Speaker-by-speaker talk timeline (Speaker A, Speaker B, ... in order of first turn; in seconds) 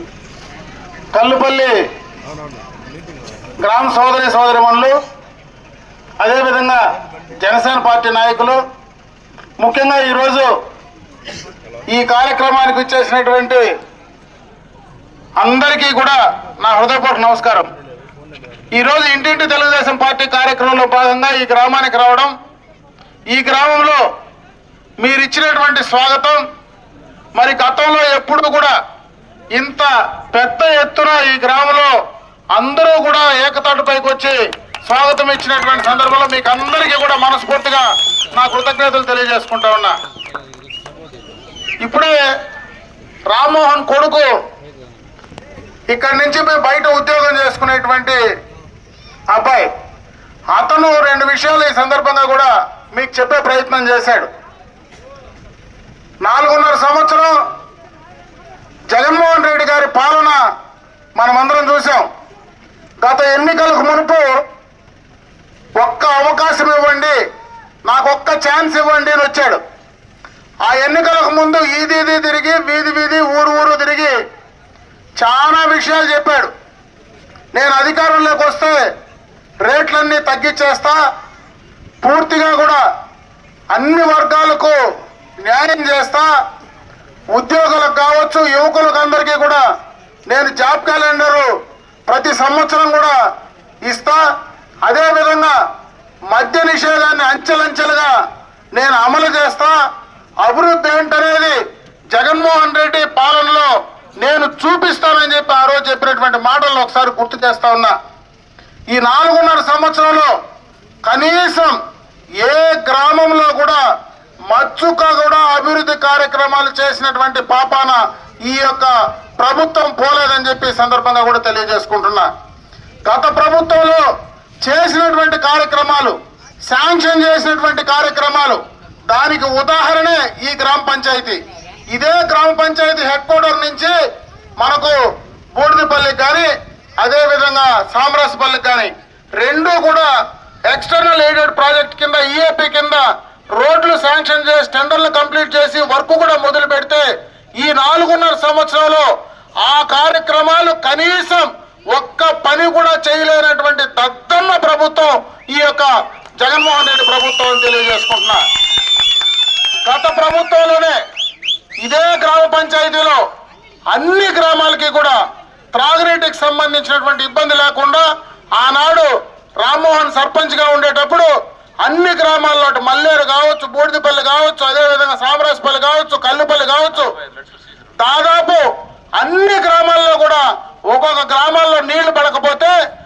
Speaker A: 1.1-1.7, 3.6-5.0, 6.2-6.8, 7.3-8.6, 9.6-10.5, 11.9-13.7, 15.4-17.7, 18.7-22.3, 23.3-24.0, 25.0-26.4, 27.4-28.7, 29.6-31.9, 32.5-39.9, 41.8-42.1, 43.3-44.3, 45.9-48.2, 49.3-49.7, 50.5-54.3, 56.2-57.3, 58.9-60.4, 61.2-62.1, 63.0-64.3, 65.8-67.2, 67.9-69.6, 70.7-74.1, 75.2-76.5, 77.5-78.8, 79.6-81.0, 82.0-82.8, 83.7-84.8, 85.4-86.3, 87.3-89.6, 90.3-91.5, 92.1-93.2, 93.8-94.2, 94.8-95.5, 96.3-98.1, 98.8-99.7, 100.4-101.6, 102.1-107.9, 108.9-110.3, 111.1-111.8, 112.4-113.8, 114.5-122.3, 123.1-124.0, 124.6-126.2, 126.7-131.4, 131.9-133.9, 134.6-135.0, 135.6-136.5, 137.0-140.1, 140.7-143.0, 143.6-147.1, 147.6-149.1, 149.7-158.4, 159.9-161.0, 161.8-163.2, 163.9-165.2, 165.7-168.1, 168.6-171.3, 171.8-177.1, 178.0-178.6, 179.2-182.7